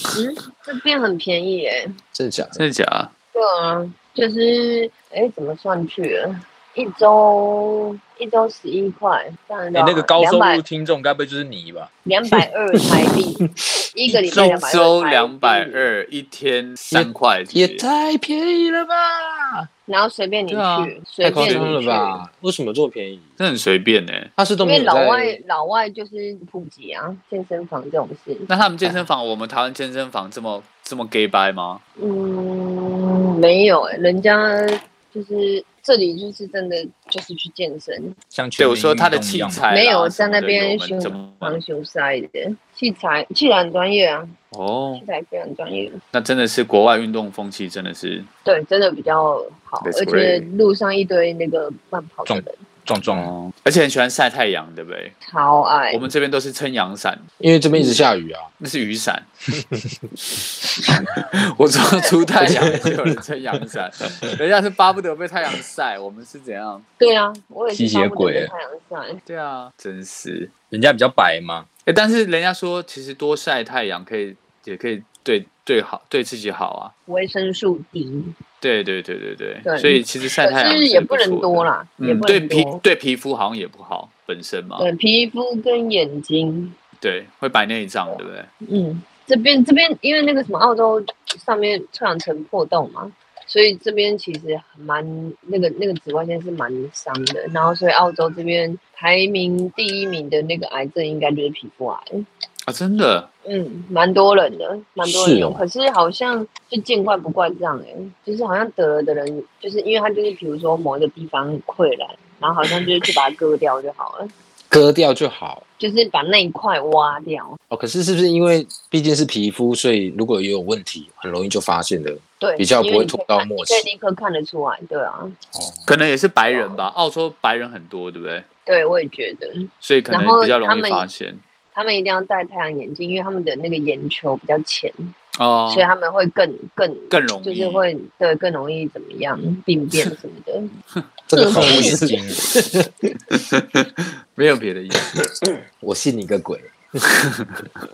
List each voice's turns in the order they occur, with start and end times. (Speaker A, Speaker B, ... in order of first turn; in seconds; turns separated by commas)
Speaker A: 0.1-1.9, Speaker B: 2.1-2.6, Speaker C: 2.5-3.1, Speaker A: 3.3-10.6, Speaker D: 9.7-11.9, Speaker A: 12.0-15.9, Speaker B: 13.6-14.5, Speaker C: 14.3-17.8, Speaker B: 16.9-19.7, Speaker A: 19.9-22.2, Speaker C: 20.5-21.7, Speaker B: 21.2-23.3, Speaker C: 23.4-24.3, Speaker B: 24.4-25.4, Speaker A: 24.6-28.5, Speaker C: 28.5-31.8, Speaker A: 32.0-38.1, Speaker D: 38.3-39.6, Speaker C: 38.6-41.6, Speaker A: 39.7-44.3, Speaker C: 44.5-45.0, Speaker A: 45.0-46.0, Speaker C: 46.1-48.3, Speaker A: 48.4-52.6, Speaker C: 49.8-50.5, Speaker D: 52.3-53.3, Speaker C: 53.0-55.1, Speaker A: 55.3-56.0, Speaker C: 55.9-57.2, Speaker B: 57.4-58.5, Speaker C: 58.6-59.3, Speaker C: 60.3-66.8, Speaker A: 61.8-62.5, Speaker B: 62.4-63.2, Speaker A: 67.0-69.2, Speaker D: 67.7-68.5, Speaker C: 69.2-70.5, Speaker D: 70.7-71.7, Speaker C: 71.8-76.9, Speaker A: 77.1-78.3, Speaker C: 78.6-84.9, Speaker A: 79.6-82.8, Speaker A: 84.8-86.7, Speaker C: 87.0-88.5, Speaker A: 88.7-102.2, Speaker C: 102.7-103.3, Speaker A: 103.5-114.3, Speaker B: 105.0-105.6, Speaker B: 114.7-115.6, Speaker A: 115.8-117.6, Speaker B: 117.7-123.9, Speaker A: 122.4-125.3, Speaker D: 125.5-125.8, Speaker C: 125.8-128.4, Speaker A: 126.5-126.8, Speaker A: 128.7-131.1, Speaker C: 129.8-131.4, Speaker A: 131.7-135.1, Speaker C: 135.3-135.9, Speaker A: 135.7-140.7, Speaker C: 137.1-137.8, Speaker B: 141.3-142.9, Speaker A: 141.3-142.2, Speaker D: 141.5-142.4, Speaker C: 143.4-145.2, Speaker B: 145.1-147.1